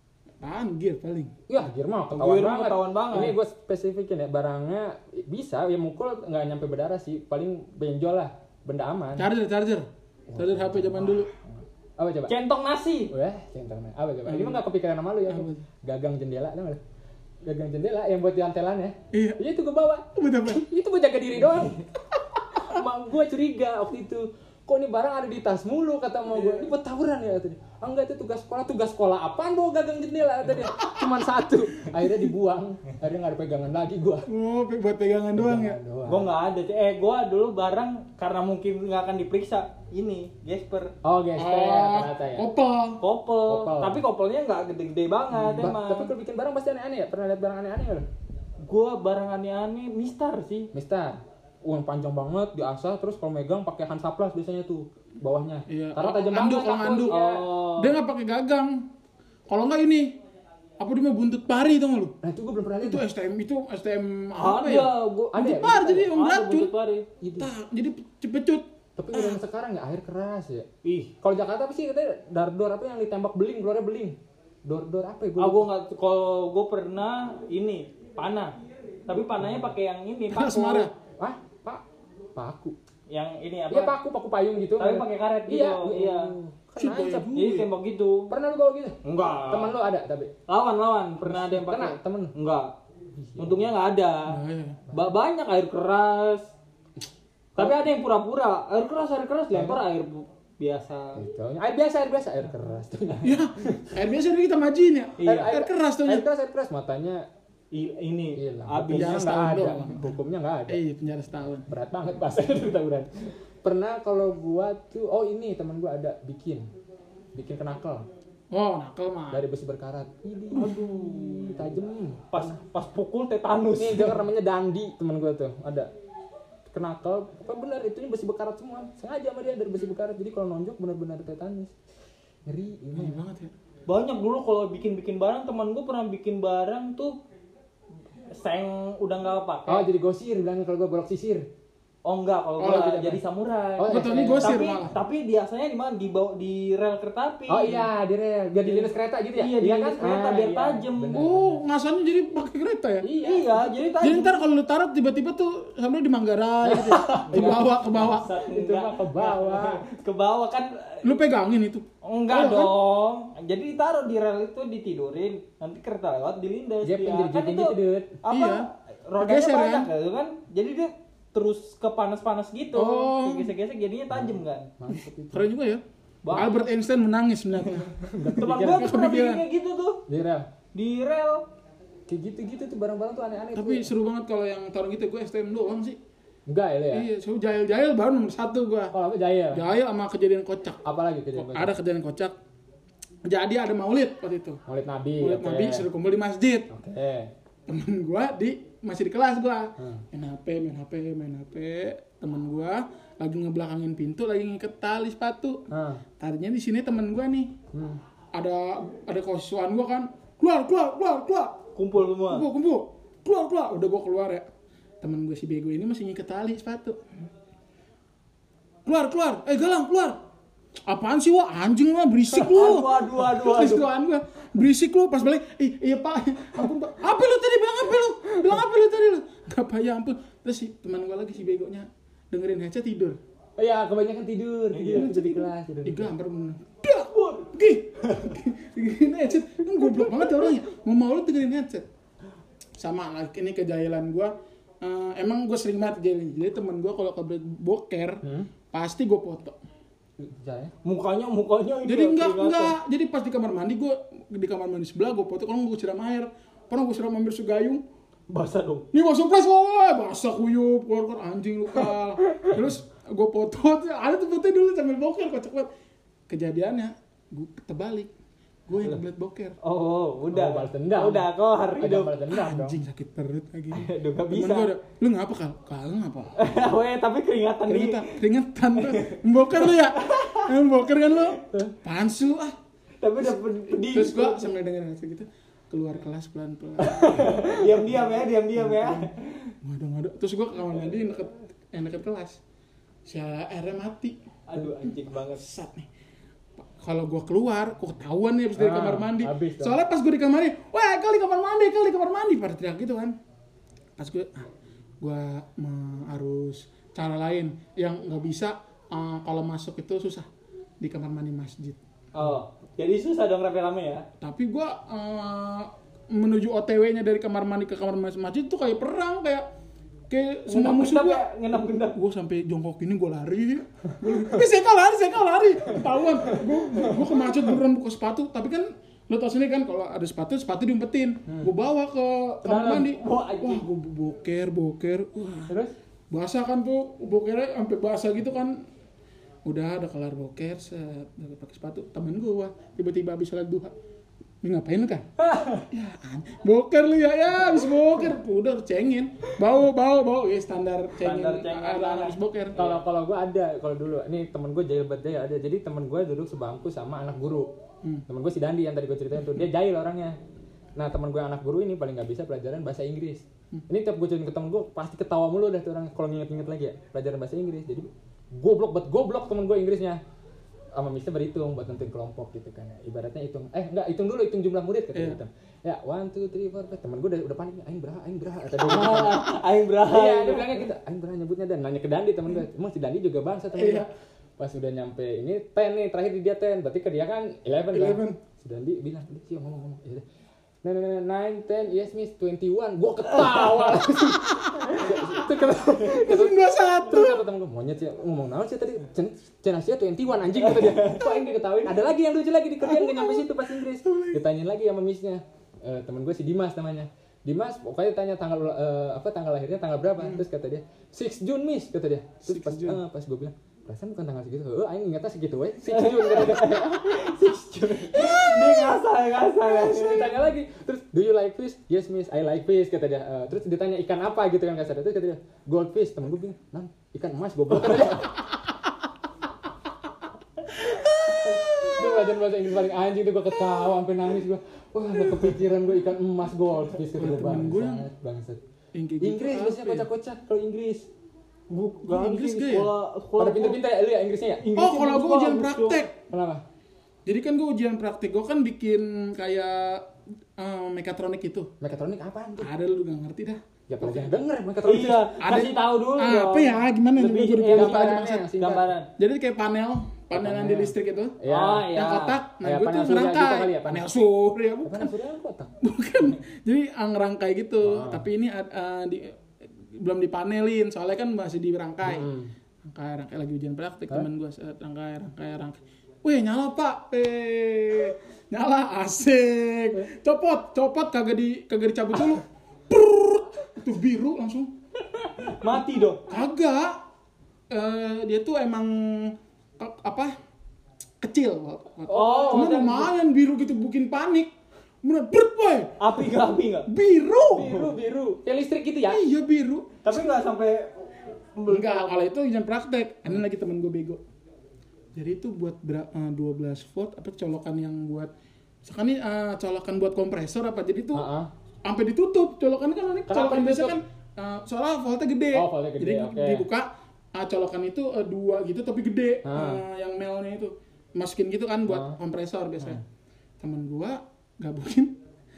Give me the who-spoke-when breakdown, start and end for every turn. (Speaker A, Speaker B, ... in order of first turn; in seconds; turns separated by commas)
Speaker A: 0.4-1.3, Speaker B: 1.5-9.3, Speaker C: 2.1-3.4, Speaker A: 9.2-11.3, Speaker B: 10.3-12.4, Speaker C: 12.3-13.1, Speaker B: 13.1-16.8, Speaker A: 14.3-14.7, Speaker A: 15.3-15.6, Speaker B: 17.4-21.8, Speaker A: 19.1-19.4, Speaker A: 20.1-20.6, Speaker B: 22.6-34.3, Speaker A: 26.3-26.7, Speaker A: 30.6-31.1, Speaker A: 32.0-32.3, Speaker A: 34.3-35.8, Speaker B: 35.4-36.3, Speaker C: 36.1-40.9, Speaker B: 41.0-42.5, Speaker A: 41.4-43.0, Speaker C: 43.0-46.1, Speaker B: 43.5-44.0, Speaker A: 45.4-45.7, Speaker B: 45.5-48.1, Speaker C: 48.6-50.7, Speaker B: 50.7-57.4, Speaker A: 55.7-57.2, Speaker C: 57.1-58.0, Speaker A: 57.8-58.9, Speaker A: 59.5-60.2, Speaker A: 60.8-62.2, Speaker B: 62.2-63.1, Speaker A: 62.8-66.7, Speaker C: 64.4-67.1, Speaker B: 65.3-66.1, Speaker B: 67.2-67.5, Speaker A: 67.4-69.4, Speaker B: 69.0-70.7, Speaker C: 70.8-71.1, Speaker B: 71.2-75.7, Speaker C: 75.4-78.5, Speaker C: 79.1-80.9, Speaker A: 80.3-80.9, Speaker B: 81.2-81.8, Speaker B: 82.4-82.8, Speaker C: 83.1-83.9, Speaker B: 83.7-87.3, Speaker C: 84.8-86.3, Speaker A: 86.8-87.7, Speaker C: 87.3-88.3, Speaker B: 88.3-89.0, Speaker C: 89.0-89.8, Speaker B: 89.5-90.3, Speaker C: 90.5-92.7, Speaker B: 91.2-92.3, Speaker B: 93.2-93.7, Speaker C: 93.4-94.4, Speaker A: 94.3-94.8, Speaker B: 94.9-95.1, Speaker C: 94.9-96.5, Speaker C: 97.6-101.2, Speaker B: 99.5-99.8, Speaker B: 101.2-104.0, Speaker A: 103.2-106.3, Speaker C: 105.2-105.5, Speaker B: 105.2-107.3, Speaker C: 107.7-109.2, Speaker B: 108.4-110.8, Speaker A: 108.9-111.7, Speaker B: 111.7-116.7, Speaker B: 117.3-118.1, Speaker A: 118.5-119.5, Speaker B: 119.3-122.6, Speaker A: 120.5-121.7, Speaker C: 122.3-124.2, Speaker B: 123.8-125.9, Speaker B: 126.7-131.7, Speaker B: 132.5-133.2, Speaker A: 132.9-133.5, Speaker C: 133.9-137.2, Speaker C: 138.3-139.8, Speaker B: 139.7-141.5, Speaker C: 142.1-147.9, Speaker B: 142.6-143.2, Speaker B: 143.8-144.6, Speaker A: 143.9-145.0, Speaker B: 147.5-151.6, Speaker C: 148.6-151.2, Speaker A: 151.1-153.1, Speaker B: 153.0-153.8, Speaker C: 153.2-154.4, Speaker A: 154.0-158.3, Speaker B: 156.6-159.8, Speaker C: 157.4-161.2, Speaker A: 161.0-162.7, Speaker C: 162.0-174.7, Speaker B: 166.8-168.2, Speaker A: 168.3-168.7, Speaker A: 169.2-169.9, Speaker A: 172.8-173.5, Speaker B: 174.1-175.5, Speaker A: 175.3-179.4, Speaker C: 176.2-176.5, Speaker B: 177.7-179.0, Speaker C: 178.4-180.0, Speaker B: 180.1-180.5, Speaker C: 180.7-181.4, Speaker B: 182.1-183.9, Speaker A: 183.6-186.0, Speaker B: 186.5-187.1, Speaker A: 186.9-188.9, Speaker B: 188.9-189.7, Speaker A: 189.5-192.3, Speaker B: 190.8-191.7, Speaker A: 193.2-194.6, Speaker B: 194.7-195.9, Speaker A: 195.2-196.7, Speaker B: 196.7-197.3, Speaker A: 197.7-205.6, Speaker B: 199.8-200.1, Speaker B: 205.7-206.0, Speaker A: 206.2-207.6, Speaker B: 207.7-208.0, Speaker A: 208.3-211.6, Speaker C: 211.8-212.5, Speaker A: 212.2-214.5, Speaker A: 215.0-217.0, Speaker A: 218.9-220.2, Speaker A: 220.9-233.2, Speaker C: 222.3-223.9, Speaker B: 233.6-236.1, Speaker C: 234.7-235.1, Speaker A: 234.9-241.9, Speaker C: 237.1-237.5, Speaker C: 238.1-238.3, Speaker A: 242.8-249.6, Speaker B: 248.2-248.5, Speaker B: 250.2-250.7, Speaker C: 250.8-252.8, Speaker A: 251.8-257.8, Speaker C: 258.3-258.9, Speaker A: 258.9-265.7, Speaker A: 266.3-268.1, Speaker A: 268.7-269.6, Speaker C: 269.6-272.1, Speaker B: 270.3-272.8, Speaker A: 272.3-276.4, Speaker C: 273.7-274.8, Speaker C: 276.4-278.1, Speaker A: 277.7-282.6, Speaker C: 278.8-279.2, Speaker C: 279.7-280.5, Speaker C: 283.0-284.5, Speaker A: 283.7-292.4, Speaker C: 286.8-289.5, Speaker A: 293.1-294.2, Speaker C: 294.5-295.5, Speaker A: 295.3-295.9, Speaker A: 296.6-303.2, Speaker B: 298.6-299.8, Speaker A: 304.0-304.5, Speaker A: 305.0-310.3, Speaker A: 310.8-311.8, Speaker C: 312.1-314.1, Speaker A: 314.2-319.5, Speaker A: 320.1-321.2, Speaker C: 320.5-322.0, Speaker A: 321.9-335.6, Speaker B: 326.4-327.1, Speaker C: 332.4-333.6, Speaker B: 335.5-335.7, Speaker A: 336.1-338.6, Speaker A: 339.5-343.7, Speaker A: 344.4-345.1, Speaker B: 345.2-345.7, Speaker A: 345.7-352.6, Speaker C: 351.0-352.8, Speaker B: 352.6-357.5, Speaker B: 358.1-360.2, Speaker B: 360.8-370.0, Speaker B: 370.8-390.0, Speaker A: 374.9-375.2, Speaker C: 378.6-380.6, Speaker A: 383.5-383.9, Speaker A: 387.7-388.2, Speaker B: 390.6-417.1, Speaker A: 394.4-395.2, Speaker A: 395.8-397.2, Speaker C: 400.6-401.0, Speaker A: 402.6-404.2, Speaker A: 410.0-410.2, Speaker A: 412.2-412.8, Speaker C: 415.7-420.1, Speaker B: 418.0-418.4, Speaker B: 419.4-428.2, Speaker B: 430.6-438.4, Speaker A: 435.0-435.3, Speaker A: 436.9-437.9, Speaker A: 438.7-439.9, Speaker B: 439.0-440.9, Speaker C: 441.5-443.6, Speaker A: 441.9-442.7, Speaker B: 443.2-444.4, Speaker C: 444.4-445.8, Speaker A: 444.6-446.0, Speaker B: 446.1-446.4, Speaker A: 447.1-451.5, Speaker B: 451.6-452.5, Speaker A: 452.4-454.2, Speaker B: 453.7-455.1, Speaker C: 454.6-458.9, Speaker A: 455.2-458.4, Speaker B: 457.4-458.7, Speaker A: 459.0-461.2, Speaker B: 460.1-461.9, Speaker C: 461.3-462.2, Speaker A: 461.7-464.9, Speaker B: 462.4-463.9, Speaker B: 464.6-465.5, Speaker A: 465.6-472.1, Speaker B: 467.6-468.0, Speaker B: 471.9-472.3, Speaker A: 472.6-484.5, Speaker C: 485.2-486.2, Speaker A: 486.0-486.8, Speaker A: 487.5-490.1, Speaker A: 491.0-494.3, Speaker C: 491.9-492.9, Speaker A: 494.8-496.0, Speaker C: 495.8-496.7, Speaker A: 496.7-497.7, Speaker B: 497.3-499.0, Speaker A: 498.9-500.0, Speaker C: 499.8-502.1, Speaker A: 501.5-504.0, Speaker A: 504.9-508.1, Speaker A: 508.6-511.1, Speaker B: 510.9-511.3, Speaker A: 511.6-522.8, Speaker B: 513.1-513.8, Speaker B: 515.3-516.5, Speaker B: 519.2-519.6, Speaker B: 521.7-522.0, Speaker A: 523.4-525.0